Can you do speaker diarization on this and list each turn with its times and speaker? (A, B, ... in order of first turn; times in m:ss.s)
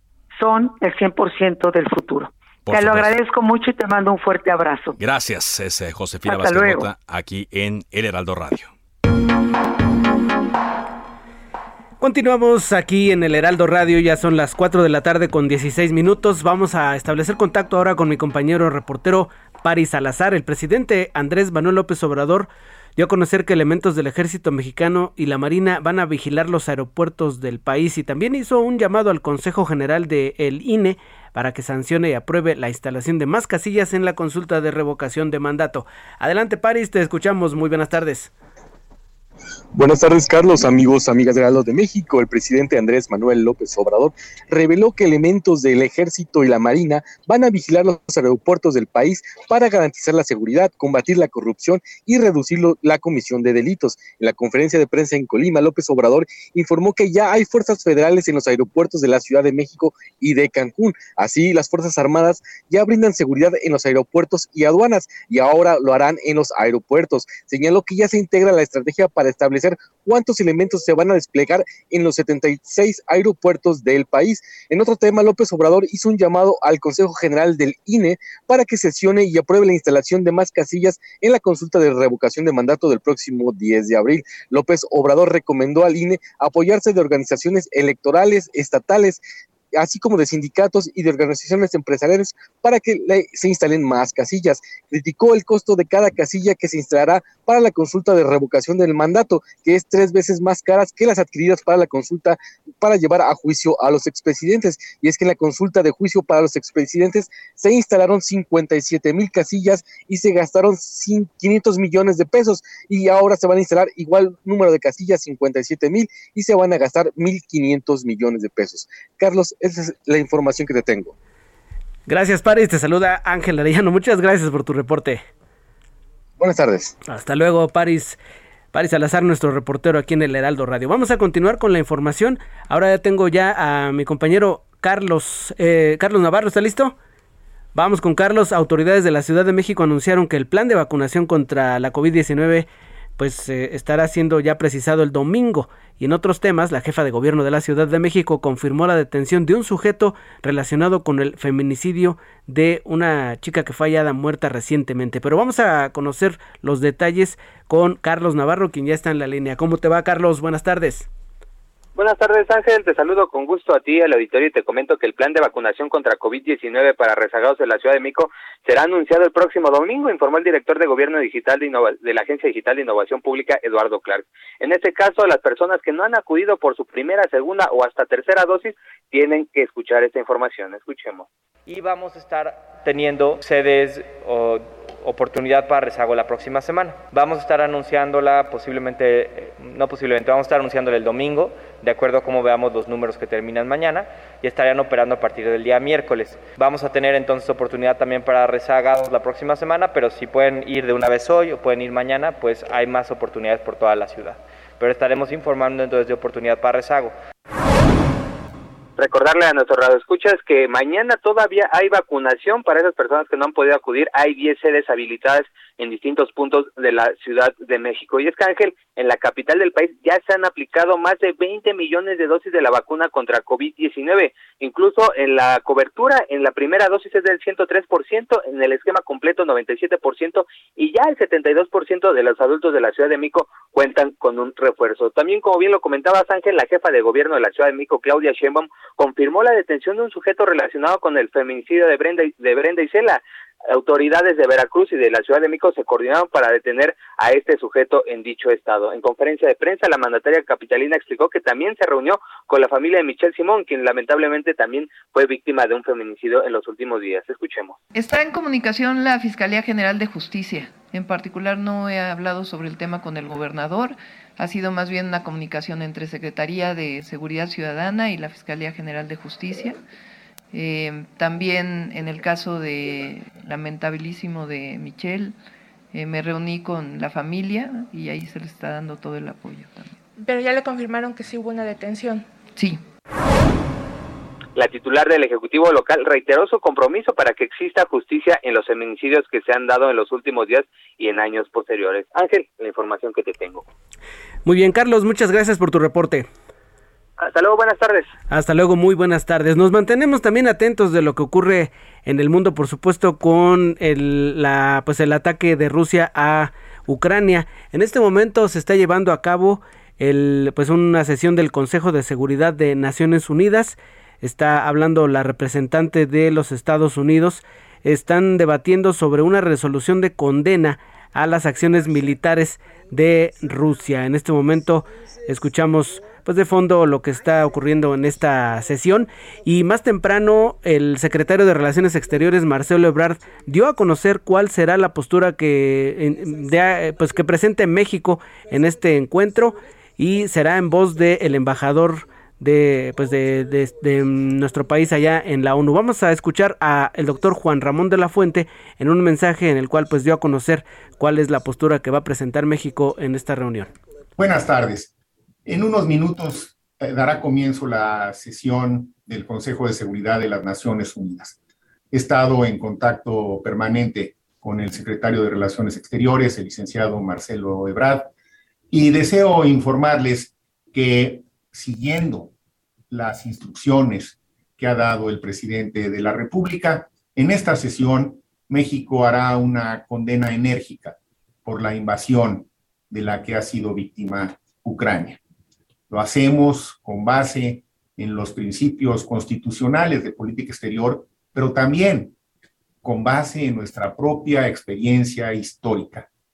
0:00.3-0:05.0 A
0:02.6-0:03.1 B
0:05.0-0:08.7 B
0:06.3-0:06.9 A
0:12.0-0:38.3 C
0:39.7-1:29.2 D
1:29.8-2:01.1 D
2:02.1-2:05.2 C
2:06.4-2:06.9 D
2:07.1-2:08.2 C
2:08.7-2:16.9 C
2:17.7-2:22.7 C
2:23.2-2:41.1 C
2:42.0-3:01.3 E
3:01.7-3:27.1 F
3:29.0-4:17.8 E
4:17.9-4:29.8 G
4:30.5-4:35.3 G
4:35.9-4:39.9 G
4:40.2-4:42.3 H
4:42.6-4:42.8 G
4:44.6-4:53.6 E
4:54.4-4:56.3 C
4:57.2-4:58.1 E
4:58.3-5:53.7 C
5:54.2-5:54.9 I
5:55.4-6:01.4 I
6:01.9-6:08.1 I
6:08.7-6:12.3 I
6:12.9-6:25.2 I
6:25.9-6:32.1 I
6:32.8-6:36.1 I